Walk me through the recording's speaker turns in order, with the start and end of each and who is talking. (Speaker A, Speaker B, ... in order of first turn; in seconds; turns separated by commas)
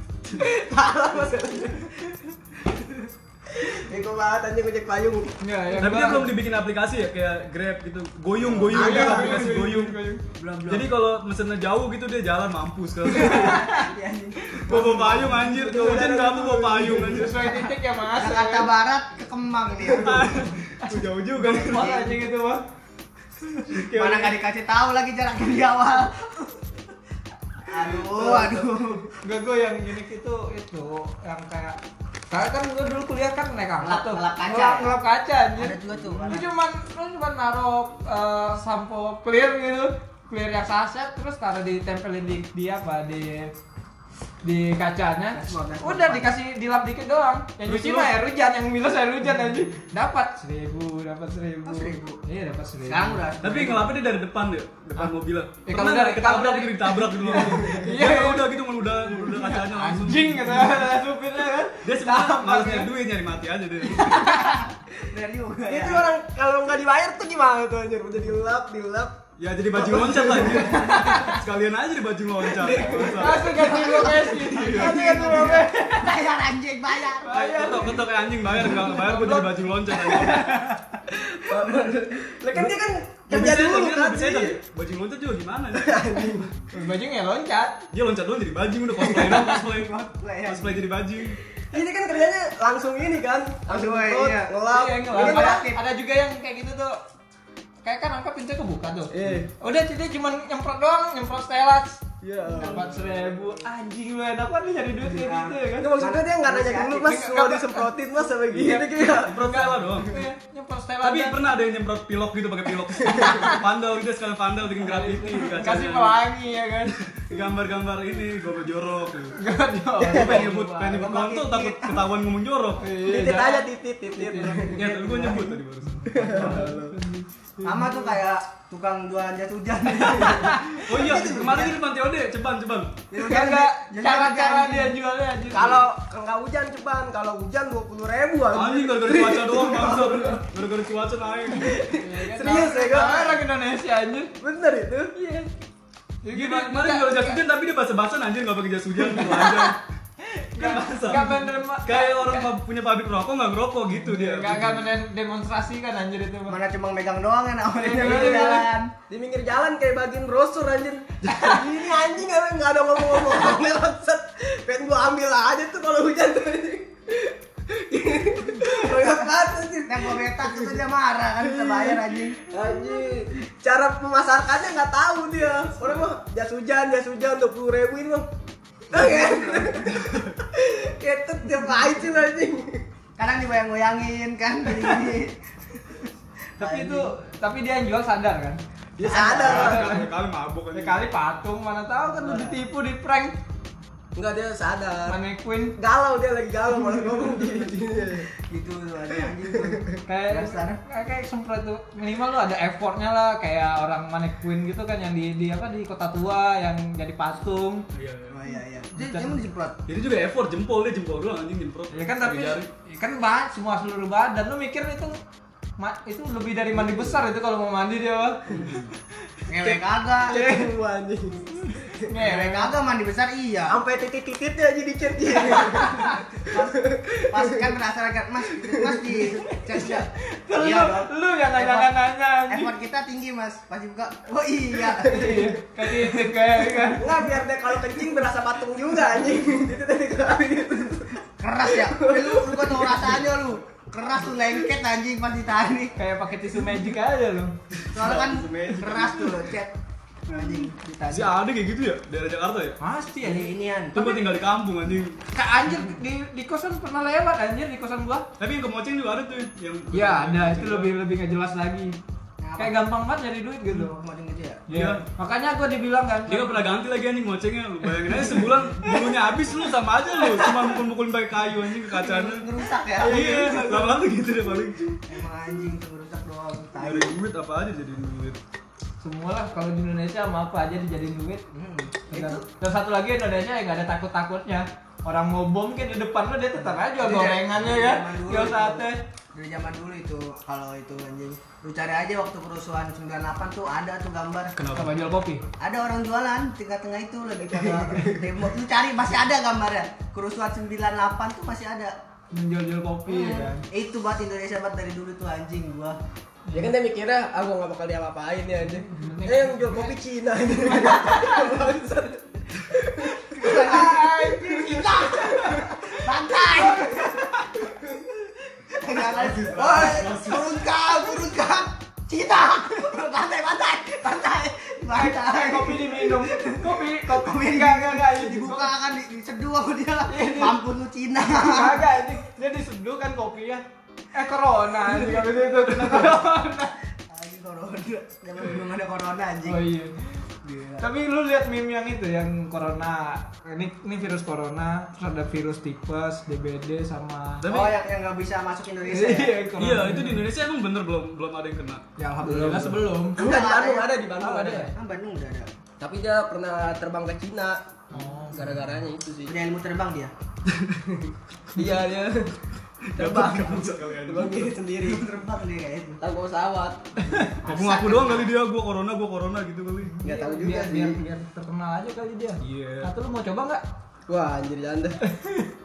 Speaker A: 0.3-2.0, Speaker A: 3.5-5.3, Speaker B: 5.4-6.3, Speaker C: 5.8-10.0, Speaker D: 8.6-9.6, Speaker B: 8.7-10.2, Speaker D: 10.4-10.9, Speaker C: 10.6-13.7, Speaker B: 13.2-13.9, Speaker D: 13.2-15.3, Speaker C: 14.6-17.5, Speaker A: 14.7-17.4, Speaker B: 16.9-18.7, Speaker D: 17.4-20.5, Speaker C: 20.0-22.0, Speaker B: 20.8-22.6, Speaker D: 21.4-22.1, Speaker C: 23.7-24.3, Speaker D: 23.9-26.7, Speaker D: 27.6-29.1, Speaker A: 28.0-29.0, Speaker B: 29.2-31.8, Speaker B: 32.3-43.5, Speaker D: 33.8-35.0, Speaker D: 35.6-36.5, Speaker B: 44.4-53.2, Speaker D: 45.3-46.4, Speaker C: 47.7-48.1, Speaker D: 51.6-52.2, Speaker D: 52.8-54.0, Speaker C: 53.4-60.8, Speaker B: 55.6-58.5, Speaker B: 59.2-62.9, Speaker C: 61.8-64.4, Speaker B: 64.0-64.6, Speaker D: 64.3-66.1, Speaker A: 65.7-69.2, Speaker C: 69.4-73.7, Speaker A: 69.7-70.9, Speaker D: 70.6-71.0, Speaker B: 70.6-71.4, Speaker A: 72.6-73.3, Speaker B: 72.8-76.2, Speaker D: 73.4-77.3, Speaker C: 74.4-75.0, Speaker B: 77.2-80.8, Speaker C: 77.3-80.8, Speaker A: 81.1-84.6, Speaker C: 83.3-86.4, Speaker A: 85.7-86.5, Speaker B: 86.7-87.8, Speaker C: 87.9-91.4, Speaker B: 89.0-89.6, Speaker D: 90.2-90.8, Speaker A: 91.7-95.6, Speaker D: 93.7-94.6, Speaker B: 94.7-97.0, Speaker D: 95.1-95.8, Speaker B: 97.8-102.0, Speaker A: 99.1-99.5, Speaker A: 102.2-102.9, Speaker B: 102.6-105.9, Speaker D: 105.0-107.2, Speaker A: 105.8-109.5, Speaker B: 107.0-107.9, Speaker B: 108.5-111.4, Speaker C: 109.0-110.2, Speaker C: 111.0-116.2, Speaker A: 113.1-113.4, Speaker B: 113.1-113.6, Speaker B: 114.8-117.0, Speaker C: 117.0-119.4, Speaker B: 119.4-121.0, Speaker A: 120.0-120.5, Speaker C: 120.1-122.8, Speaker D: 120.8-122.0, Speaker B: 122.8-124.8, Speaker A: 123.0-125.5, Speaker C: 124.6-126.7, Speaker D: 124.9-125.5, Speaker B: 126.0-128.1, Speaker A: 126.1-127.0, Speaker D: 127.6-131.8, Speaker B: 130.2-130.8, Speaker C: 130.8-132.9, Speaker D: 133.1-135.0, Speaker B: 133.2-135.8, Speaker A: 135.5-140.4, Speaker C: 138.5-141.8, Speaker A: 141.5-143.4, Speaker B: 141.8-144.3, Speaker A: 144.4-145.1, Speaker B: 145.1-145.5, Speaker B: 146.2-147.4, Speaker C: 146.3-149.8, Speaker B: 149.1-149.7, Speaker B: 150.3-152.5, Speaker C: 150.6-154.9, Speaker B: 154.0-156.6, Speaker D: 156.5-158.9, Speaker B: 157.8-158.7, Speaker A: 158.0-158.6, Speaker A: 159.1-170.8, Speaker D: 168.9-169.2, Speaker D: 169.9-172.4, Speaker A: 171.4-178.3, Speaker D: 178.9-180.0, Speaker A: 178.9-182.8, Speaker D: 183.2-185.4, Speaker D: 186.6-187.1, Speaker B: 186.6-188.6, Speaker A: 189.0-190.0, Speaker D: 189.0-189.8, Speaker C: 189.3-191.1, Speaker B: 189.4-190.1, Speaker B: 190.7-193.3, Speaker D: 192.2-192.6, Speaker A: 194.2-195.2, Speaker B: 195.1-195.8, Speaker A: 195.8-198.3, Speaker D: 198.4-200.8, Speaker A: 199.3-199.9, Speaker B: 200.1-207.8, Speaker C: 207.9-208.4, Speaker D: 208.3-209.8, Speaker B: 208.9-209.4, Speaker C: 209.9-212.7, Speaker B: 211.9-215.2, Speaker B: 215.8-218.7, Speaker C: 218.6-218.9, Speaker D: 219.5-220.6, Speaker A: 219.6-221.6, Speaker B: 221.6-222.7, Speaker D: 222.1-223.8, Speaker A: 223.7-227.7, Speaker B: 225.6-226.2, Speaker D: 226.1-231.9, Speaker A: 228.6-229.2, Speaker B: 229.5-232.7, Speaker D: 232.5-235.4, Speaker A: 234.9-235.5, Speaker B: 235.0-237.2, Speaker A: 236.8-243.2, Speaker D: 241.4-245.9, Speaker B: 246.0-247.6, Speaker C: 247.9-249.3, Speaker D: 247.9-251.4, Speaker A: 248.0-249.2, Speaker C: 251.1-252.8, Speaker B: 252.8-253.5, Speaker D: 253.2-254.2, Speaker C: 253.9-255.2, Speaker B: 255.3-258.3, Speaker C: 258.4-260.9, Speaker B: 259.9-262.0, Speaker D: 262.4-262.8, Speaker B: 262.6-263.9, Speaker D: 263.7-264.6, Speaker B: 264.7-266.6, Speaker C: 264.7-265.0, Speaker C: 266.3-272.5, Speaker B: 268.0-269.1, Speaker B: 270.2-270.7, Speaker D: 271.9-273.6, Speaker B: 273.0-273.9, Speaker C: 273.0-275.0, Speaker D: 275.1-277.2, Speaker C: 276.8-278.4, Speaker B: 279.0-281.4, Speaker D: 281.5-282.4, Speaker B: 282.1-289.0, Speaker D: 286.6-294.5, Speaker C: 294.6-294.9, Speaker B: 294.7-295.4, Speaker D: 295.6-301.9, Speaker A: 297.6-298.2, Speaker B: 302.3-303.6, Speaker D: 303.1-306.0, Speaker B: 306.5-306.7, Speaker A: 306.5-315.7, Speaker B: 308.9-309.9, Speaker B: 310.6-311.6, Speaker D: 313.4-318.0, Speaker B: 313.4-315.6, Speaker A: 316.7-317.0, Speaker D: 318.7-332.1, Speaker C: 319.1-320.6, Speaker A: 319.6-320.0, Speaker B: 324.9-328.7, Speaker B: 330.1-330.6, Speaker B: 331.2-336.7, Speaker D: 337.1-339.6, Speaker B: 339.4-339.9, Speaker D: 340.4-340.9, Speaker B: 340.8-347.5, Speaker C: 347.4-347.8, Speaker D: 347.4-349.4, Speaker B: 348.9-350.3, Speaker C: 349.6-352.7, Speaker B: 352.0-353.2, Speaker A: 352.2-354.7, Speaker D: 353.2-354.0, Speaker B: 354.2-354.7, Speaker D: 354.7-355.5, Speaker A: 355.8-357.6, Speaker B: 357.9-358.8, Speaker A: 358.3-359.3, Speaker D: 359.3-360.1, Speaker A: 360.9-362.3, Speaker C: 362.9-364.5, Speaker A: 363.0-365.1, Speaker D: 363.0-363.7, Speaker D: 364.4-366.0, Speaker A: 366.0-366.8, Speaker B: 367.0-367.4, Speaker D: 367.4-368.3, Speaker C: 367.4-369.9, Speaker B: 369.9-373.6, Speaker A: 370.0-371.0, Speaker C: 372.4-372.9, Speaker A: 374.1-375.0, Speaker B: 375.0-375.5